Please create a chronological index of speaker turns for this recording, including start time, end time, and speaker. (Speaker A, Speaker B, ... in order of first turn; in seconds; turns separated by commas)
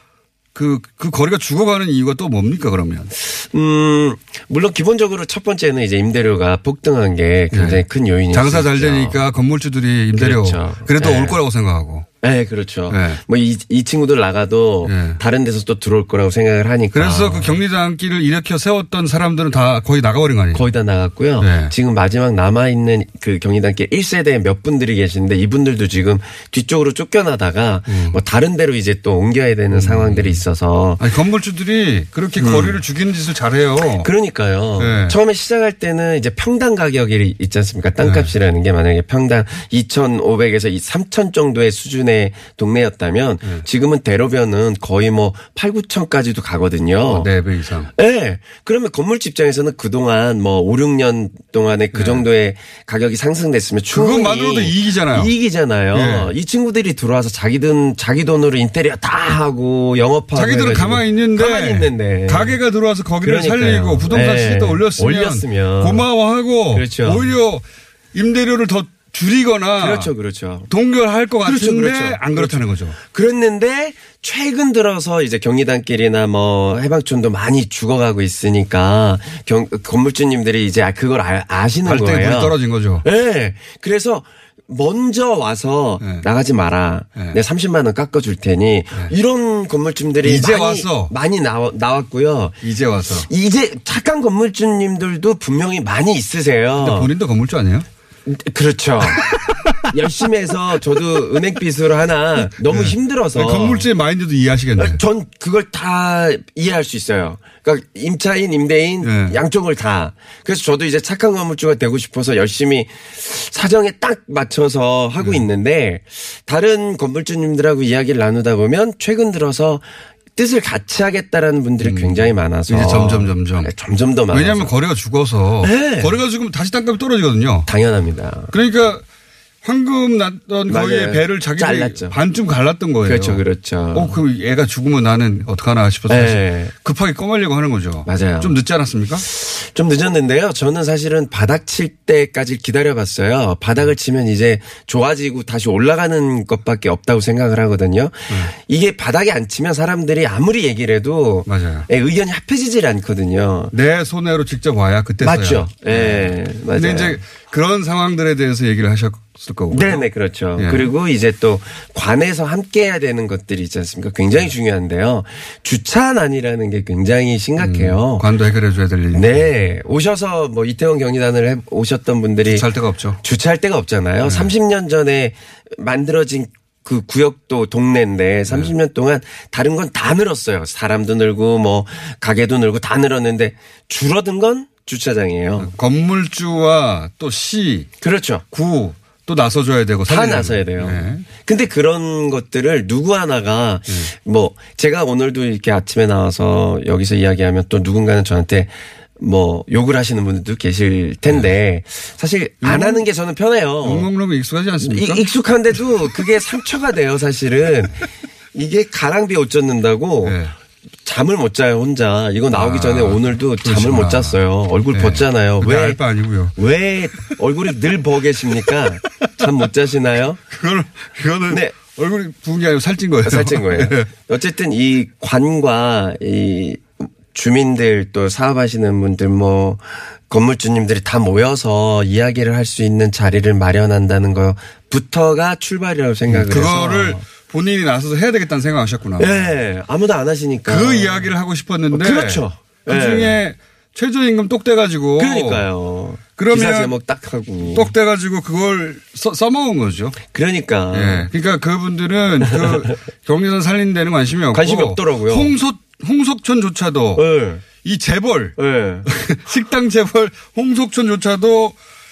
Speaker A: 0.5-3.1, Speaker B: 3.2-9.2, Speaker A: 7.5-12.1, Speaker B: 10.2-11.4, Speaker B: 12.2-17.6, Speaker A: 12.9-13.2, Speaker A: 14.8-15.2, Speaker A: 16.9-20.7, Speaker B: 20.5-31.0, Speaker A: 21.4-21.7, Speaker A: 27.9-28.2, Speaker A: 29.7-30.4, Speaker A: 31.0-34.1, Speaker B: 32.4-32.8, Speaker B: 34.0-47.3, Speaker A: 34.8-35.2, Speaker A: 38.0-38.3, Speaker A: 47.1-47.9, Speaker B: 48.0-62.6, Speaker A: 51.9-52.2, Speaker A: 53.9-55.3, Speaker A: 55.9-56.3, Speaker A: 60.4-70.1, Speaker B: 63.2-66.1, Speaker B: 66.7-67.3, Speaker B: 69.8-70.7, Speaker A: 70.7-73.0, Speaker B: 71.4-92.6, Speaker A: 81.8-83.0, Speaker A: 90.2-91.1, Speaker A: 92.6-93.3, Speaker B: 93.3-97.1, Speaker A: 96.8-97.9, Speaker B: 98.3-99.3, Speaker A: 99.2-99.7, Speaker B: 99.9-103.9, Speaker A: 102.6-105.0, Speaker B: 104.8-124.7, Speaker A: 109.0-109.4, Speaker A: 115.2-115.4, Speaker A: 121.8-123.7, Speaker A: 124.3-127.7, Speaker B: 125.6-126.2, Speaker B: 127.7-128.5, Speaker A: 128.5-129.0, Speaker A: 129.6-133.4, Speaker B: 130.7-132.2, Speaker B: 133.0-134.2, Speaker A: 133.9-139.3, Speaker B: 136.1-136.7, Speaker B: 138.1-138.6, Speaker B: 139.2-153.7, Speaker A: 151.5-151.9, Speaker A: 153.7-160.9, Speaker B: 155.2-157.2, Speaker B: 159.7-168.2, Speaker A: 167.6-169.5, Speaker B: 169.1-172.7, Speaker A: 172.5-173.2, Speaker B: 173.2-185.7, Speaker A: 174.2-174.5, Speaker A: 185.6-187.9, Speaker B: 188.0-188.4, Speaker A: 188.5-191.3, Speaker B: 190.1-204.1, Speaker A: 202.6-203.1, Speaker A: 203.8-205.2, Speaker B: 204.8-210.4, Speaker A: 210.2-210.5, Speaker B: 211.1-216.0, Speaker A: 212.5-214.4, Speaker A: 214.9-216.6, Speaker B: 216.6-220.4, Speaker A: 219.2-219.5, Speaker A: 220.5-224.1, Speaker B: 221.5-221.8, Speaker B: 223.2-237.2, Speaker A: 236.3-239.4, Speaker B: 239.2-241.2, Speaker A: 240.7-245.7, Speaker B: 241.9-243.4, Speaker B: 245.2-247.9, Speaker A: 246.4-246.9, Speaker A: 247.6-250.2, Speaker B: 250.2-251.3, Speaker A: 250.9-257.2, Speaker B: 252.5-252.9, Speaker B: 254.5-255.6, Speaker B: 257.2-257.7, Speaker A: 257.8-261.8, Speaker B: 258.6-259.1